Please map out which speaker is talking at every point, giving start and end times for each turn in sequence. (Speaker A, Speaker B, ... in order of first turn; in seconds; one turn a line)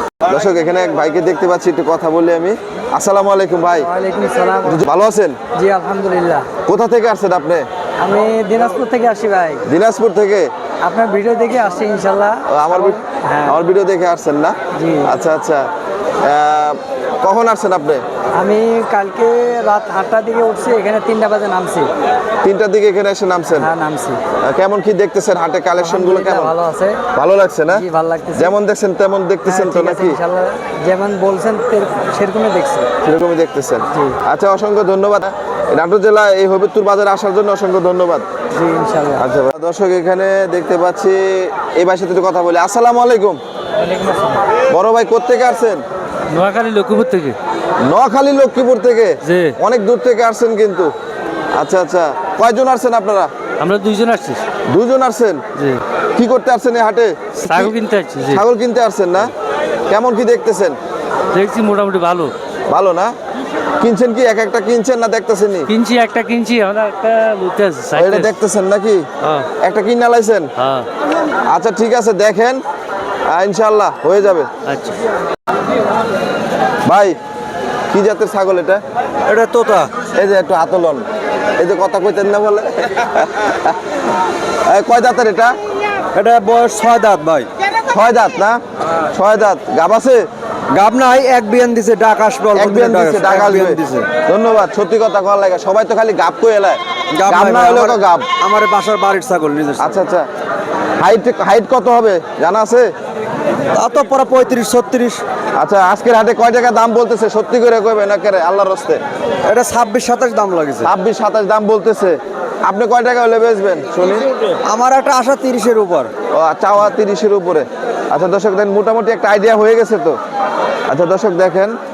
Speaker A: 0.2-3.9
Speaker B: 3.8-4.8
Speaker A: 4.6-5.4
Speaker B: 5.5-6.5
Speaker A: 6.7-7.7
Speaker B: 8.0-9.6
Speaker A: 9.7-10.5
Speaker B: 10.8-12.4
Speaker A: 12.5-15.6
Speaker B: 13.2-13.6
Speaker B: 14.8-15.1
Speaker A: 16.2-18.0
Speaker B: 18.4-21.9
Speaker A: 22.4-23.7
Speaker B: 23.6-24.2
Speaker A: 24.4-26.5
Speaker B: 25.8-27.0
Speaker A: 27.1-30.2
Speaker B: 27.7-28.5
Speaker B: 29.4-32.9
Speaker A: 33.0-38.2
Speaker B: 38.5-39.2
Speaker A: 39.1-43.4
Speaker B: 43.9-44.3
Speaker A: 44.7-45.8
Speaker C: 46.3-47.4
Speaker A: 47.8-50.9
Speaker C: 49.2-49.5
Speaker A: 51.5-53.3
Speaker C: 53.6-54.4
Speaker A: 54.7-55.4
Speaker A: 56.1-57.7
Speaker C: 57.4-58.4
Speaker A: 58.2-59.3
Speaker A: 59.9-60.8
Speaker C: 61.3-62.3
Speaker A: 62.7-63.1
Speaker A: 63.8-65.7
Speaker C: 65.7-68.3
Speaker A: 67.9-69.0
Speaker A: 69.6-70.5
Speaker C: 70.6-70.8
Speaker A: 71.5-72.6
Speaker A: 73.3-74.5
Speaker C: 74.7-75.0
Speaker A: 76.8-77.2
Speaker A: 77.9-78.8
Speaker D: 79.3-79.8
Speaker A: 80.2-81.0
Speaker A: 81.6-83.8
Speaker A: 84.7-85.5
Speaker D: 86.1-87.5
Speaker A: 87.9-88.6
Speaker A: 89.1-90.2
Speaker D: 90.7-94.0
Speaker A: 92.5-98.3
Speaker D: 97.2-97.9
Speaker D: 98.4-99.9
Speaker A: 99.8-100.2
Speaker A: 101.0-102.9
Speaker D: 103.8-105.2
Speaker A: 105.6-109.0
Speaker D: 109.5-110.8
Speaker A: 110.8-114.3
Speaker D: 114.7-116.1
Speaker A: 116.3-120.2
Speaker A: 120.9-121.7